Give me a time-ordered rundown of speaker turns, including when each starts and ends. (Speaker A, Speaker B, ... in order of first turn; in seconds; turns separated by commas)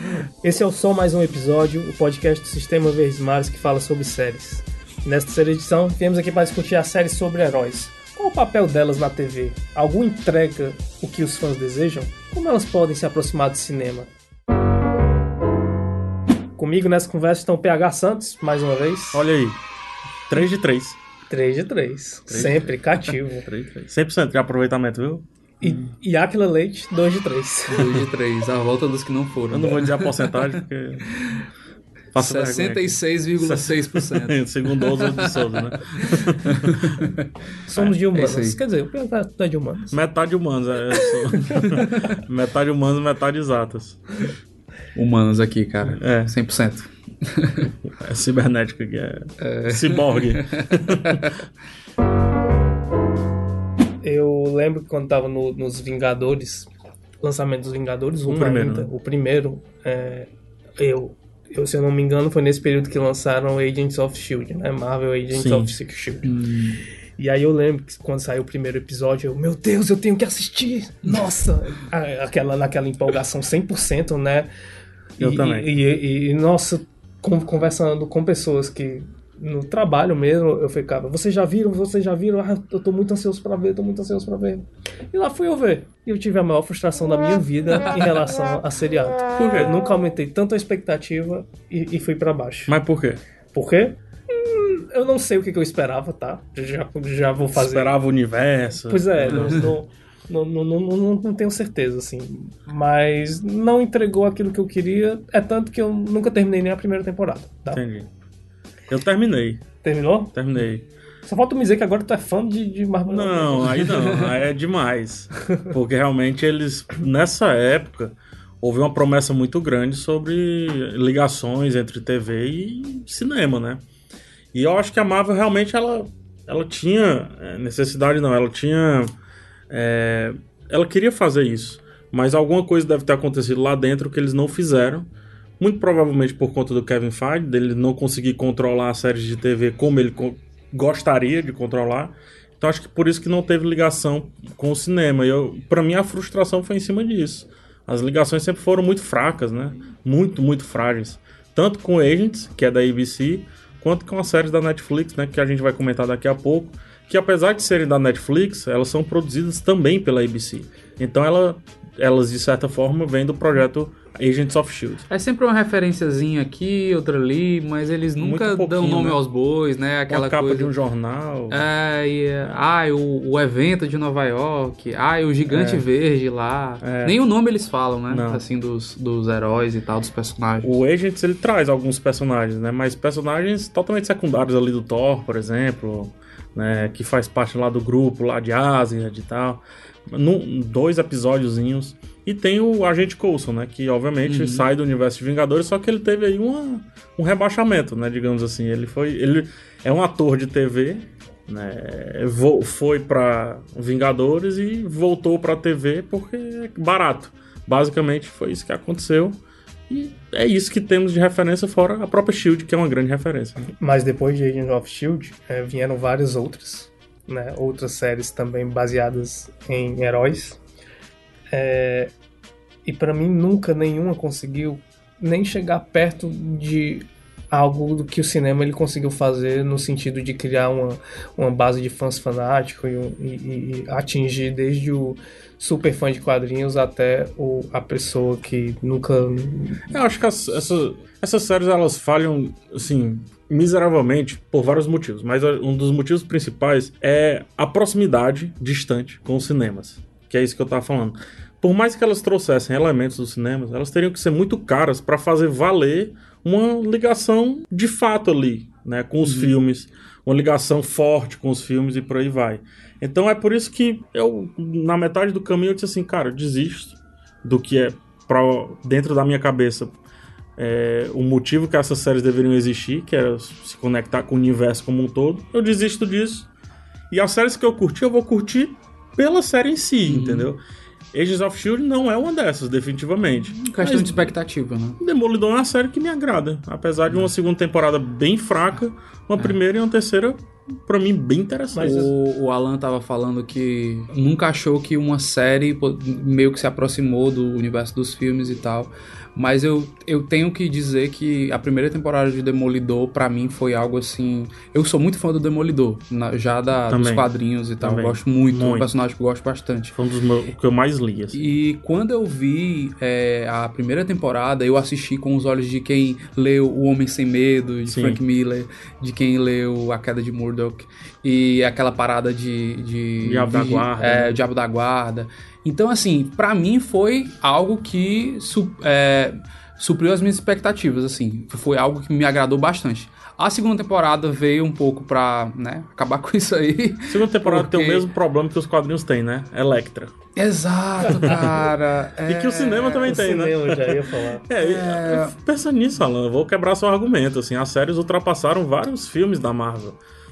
Speaker A: 0.4-14.1, Speaker A: 16.6-19.2, Speaker B: 19.1-19.6, Speaker B: 20.3-21.0, Speaker A: 21.3-23.5, Speaker B: 22.3-25.8, Speaker A: 25.6-28.0, Speaker C: 27.7-30.6, Speaker B: 29.5-31.1, Speaker C: 31.1-31.4, Speaker B: 32.1-37.0, Speaker C: 32.1-37.3, Speaker A: 37.7-40.0, Speaker C: 38.1-38.6, Speaker B: 39.9-44.3, Speaker A: 41.0-41.9, Speaker C: 44.9-47.7, Speaker B: 45.9-46.3, Speaker B: 47.9-51.3, Speaker C: 49.4-51.4, Speaker A: 54.0-66.3, Speaker B: 58.3-58.9, Speaker B: 65.3-65.7, Speaker C: 66.2-66.8, Speaker A: 67.2-74.5, Speaker A: 75.2-92.7, Speaker B: 75.2-75.7, Speaker B: 89.3-89.8, Speaker B: 92.7-93.2, Speaker A: 93.5-97.9, Speaker B: 97.5-99.7, Speaker A: 98.9-107.8, Speaker B: 107.7-108.1, Speaker B: 108.9-109.6, Speaker A: 109.8-110.3, Speaker B: 110.3-110.8, Speaker A: 111.2-114.2, Speaker B: 113.1-123.8, Speaker B: 124.5-129.1, Speaker B: 129.7-135.1, Speaker B: 135.6-165.1, Speaker C: 165.1-170.7, Speaker B: 168.2-169.2, Speaker B: 170.1-171.6, Speaker C: 171.5-180.8, Speaker B: 175.5-175.8, Speaker B: 176.8-177.2, Speaker B: 178.1-178.4, Speaker B: 180.6-209.4, Speaker C: 194.2-194.7, Speaker B: 209.9-213.6, Speaker A: 213.8-220.6, Speaker A: 221.5-222.1, Speaker A: 222.8-239.9, Speaker B: 239.9-269.9, Speaker C: 259.2-259.5, Speaker B: 270.6-276.5, Speaker B: 277.1-280.6, Speaker C: 280.1-280.5, Speaker B: 281.1-284.3, Speaker C: 283.6-285.0, Speaker B: 285.0-292.1, Speaker A: 291.7-292.1, Speaker C: 291.8-309.9, Speaker B: 306.9-307.3, Speaker B: 307.8-308.9, Speaker B: 309.9-311.4, Speaker C: 311.3-338.0, Speaker B: 317.9-318.2, Speaker B: 323.2-324.4, Speaker B: 337.1-340.1, Speaker C: 340.4-343.2, Speaker B: 341.1-341.6, Speaker B: 342.2-350.0, Speaker A: 343.0-344.4, Speaker C: 344.6-345.3